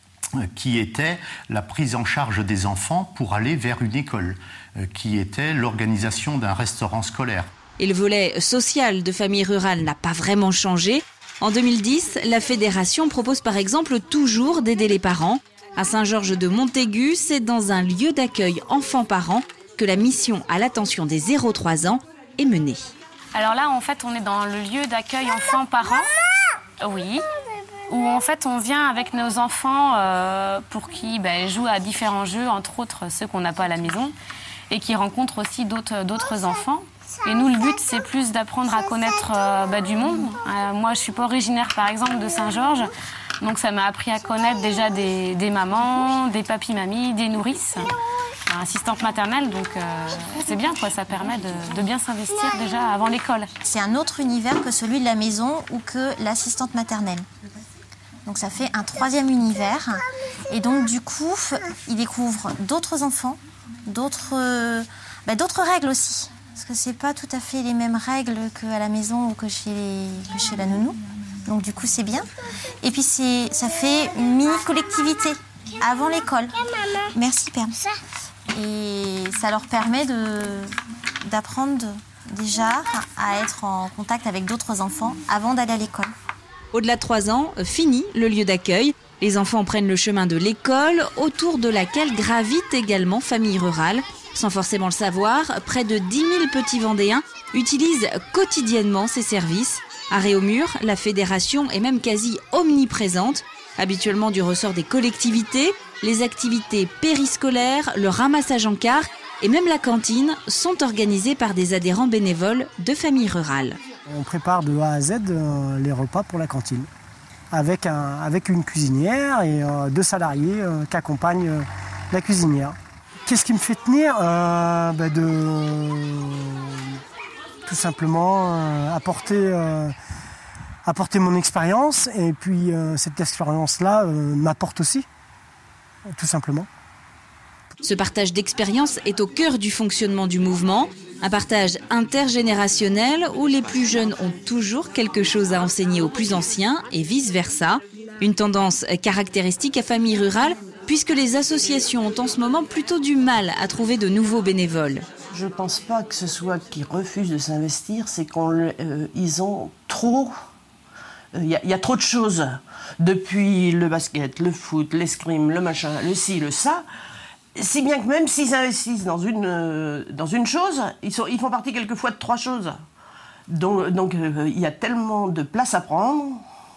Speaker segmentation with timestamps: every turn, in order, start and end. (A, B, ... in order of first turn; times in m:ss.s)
0:00.4-0:07.5 A
0:07.8-0:22.9 B
0:23.3-0:26.1 C
0:26.8-0:27.2 C
0:27.9-0:34.1 C
0:34.7-0:42.9 C
0:43.4-0:47.9 C
0:48.5-0:53.5 C
0:53.6-0:57.2 D
0:58.2-1:12.3 D
1:12.8-1:16.5 D
1:17.1-1:17.8 D
1:18.5-1:20.7 D
1:21.2-1:26.1 D
1:26.7-1:53.8 B
1:54.1-1:56.9 E
1:57.5-2:02.7 E
2:03.2-2:06.6 E
2:07.6-2:09.9 E
2:10.8-2:15.0 E
2:16.1-2:16.7 E
2:17.8-2:35.0 B
2:35.3-2:40.3 F
2:41.3-2:46.8 F
2:47.5-2:52.8 F
2:53.5-2:56.4 F